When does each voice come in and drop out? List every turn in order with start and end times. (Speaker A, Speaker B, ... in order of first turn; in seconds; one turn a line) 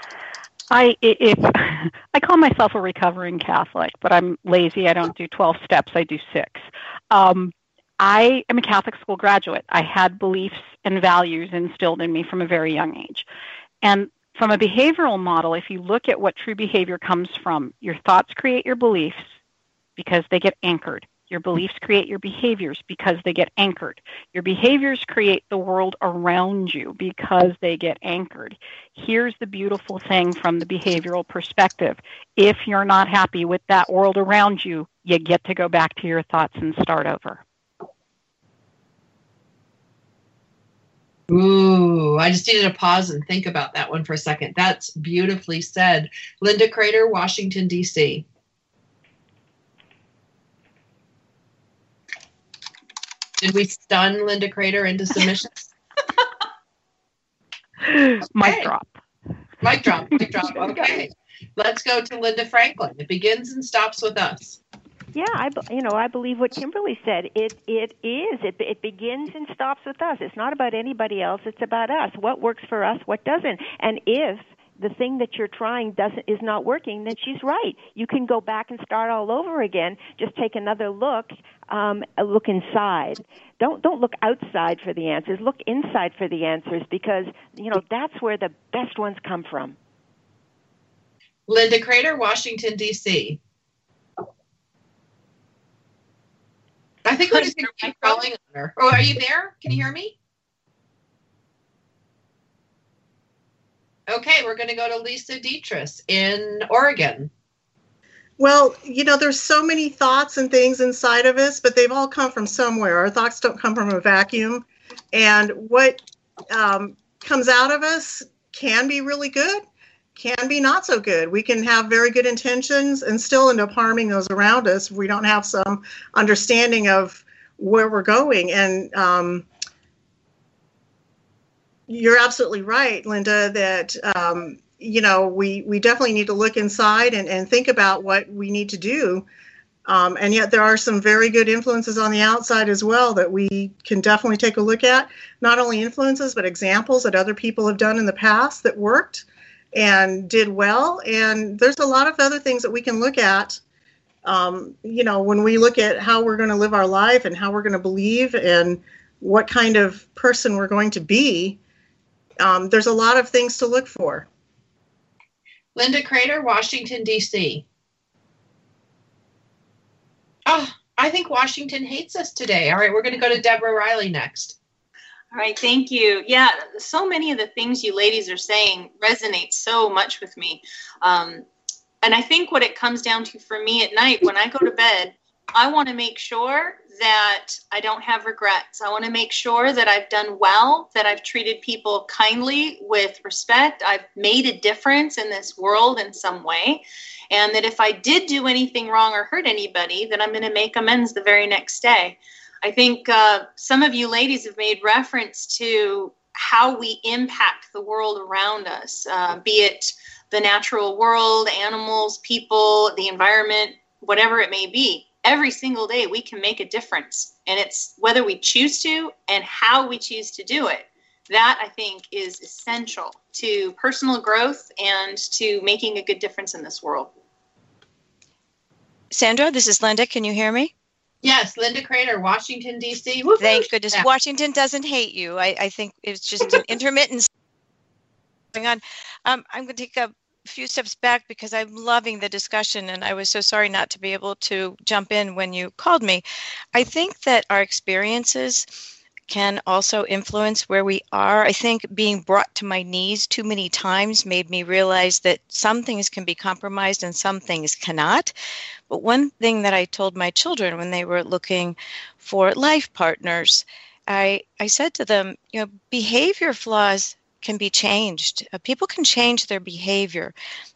Speaker A: 0.7-13.3
Speaker A: 13.8-19.3
Speaker A: 20.0-37.4
Speaker B: 41.3-48.3
Speaker B: 53.4-55.6
Speaker A: 57.8-59.0
Speaker B: 58.4-58.7
Speaker B: 59.6-64.6
Speaker C: 65.1-89.8
Speaker B: 91.5-93.4
Speaker B: 97.1-100.2
Speaker B: 104.1-107.3
Speaker D: 108.4-119.6
Speaker D: 120.2-129.5
Speaker D: 131.9-139.2
Speaker D: 139.9-153.6
Speaker D: 154.2-161.6
Speaker D: 162.4-164.3
Speaker B: 165.8-167.7
Speaker B: 170.5-174.6
Speaker E: 175.3-181.5
Speaker E: 182.0-227.1
Speaker F: 229.1-230.7
Speaker B: 231.2-234.1
Speaker F: 233.4-237.3
Speaker F: 238.5-248.7
Speaker F: 249.3-258.3
Speaker F: 258.9-270.4